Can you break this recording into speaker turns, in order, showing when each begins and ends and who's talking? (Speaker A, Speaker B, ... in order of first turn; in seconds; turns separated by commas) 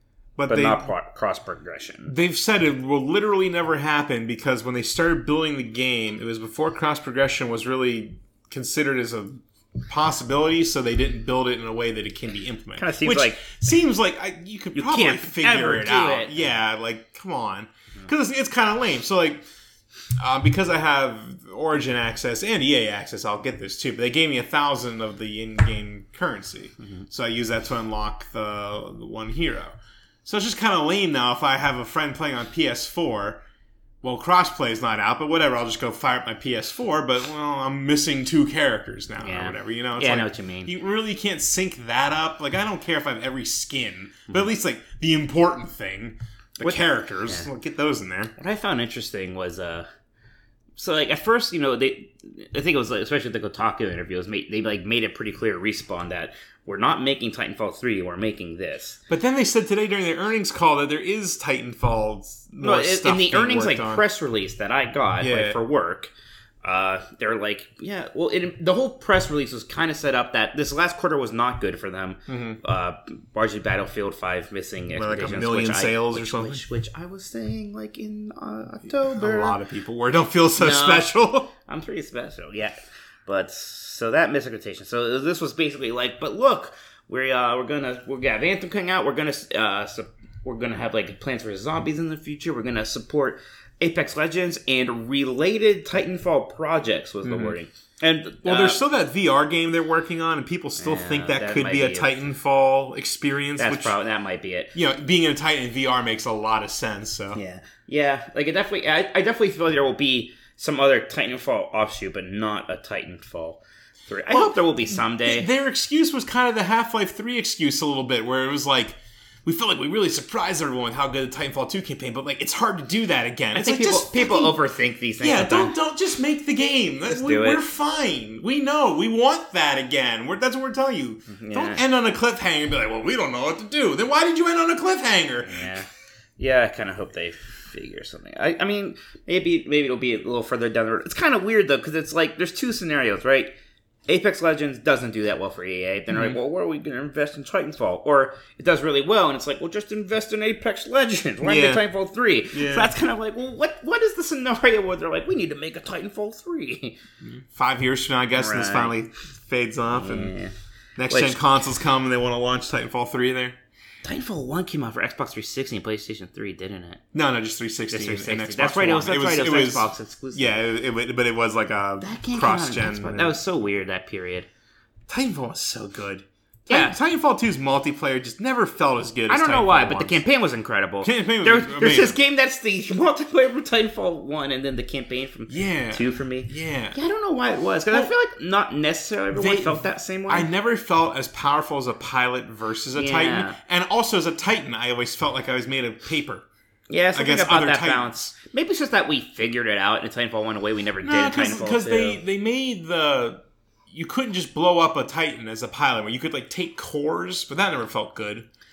Speaker A: 0.4-0.9, Speaker B: 0.5-2.1, Speaker A: 2.1-19.4, Speaker B: 12.8-13.4, Speaker B: 14.7-16.5, Speaker A: 20.2-33.4, Speaker A: 34.0-48.3, Speaker B: 39.2-40.7, Speaker B: 46.6-47.5, Speaker B: 48.4-49.9, Speaker B: 50.8-59.0, Speaker A: 59.1-64.0, Speaker B: 62.6-66.1, Speaker A: 65.2-65.6, Speaker B: 66.6-79.6, Speaker A: 72.3-72.6, Speaker A: 75.0-76.6, Speaker A: 78.9-81.5, Speaker B: 80.6-98.8, Speaker A: 97.2-97.6, Speaker A: 98.4-104.0, Speaker B: 100.8-102.2, Speaker B: 103.6-104.7, Speaker A: 104.7-107.4, Speaker B: 107.3-115.5, Speaker A: 114.3-124.5, Speaker B: 123.5-125.7, Speaker A: 125.2-135.7, Speaker B: 127.1-127.6, Speaker B: 131.3-131.8, Speaker B: 135.4-143.5, Speaker B: 144.1-157.0, Speaker A: 146.1-146.4, Speaker A: 151.4-151.8, Speaker A: 152.5-152.9, Speaker A: 157.2-160.3, Speaker B: 158.3-158.9, Speaker B: 159.9-160.5, Speaker A: 161.0-163.6, Speaker B: 161.1-161.4, Speaker B: 164.0-167.0, Speaker A: 167.1-173.4, Speaker B: 167.9-170.6, Speaker B: 172.0-174.5, Speaker A: 175.1-180.2, Speaker B: 176.7-176.9, Speaker B: 179.3-190.5, Speaker A: 181.0-182.2, Speaker A: 185.5-187.0, Speaker A: 189.3-196.4, Speaker B: 192.9-193.6, Speaker B: 196.9-202.2, Speaker A: 197.1-198.2, Speaker A: 201.0-208.5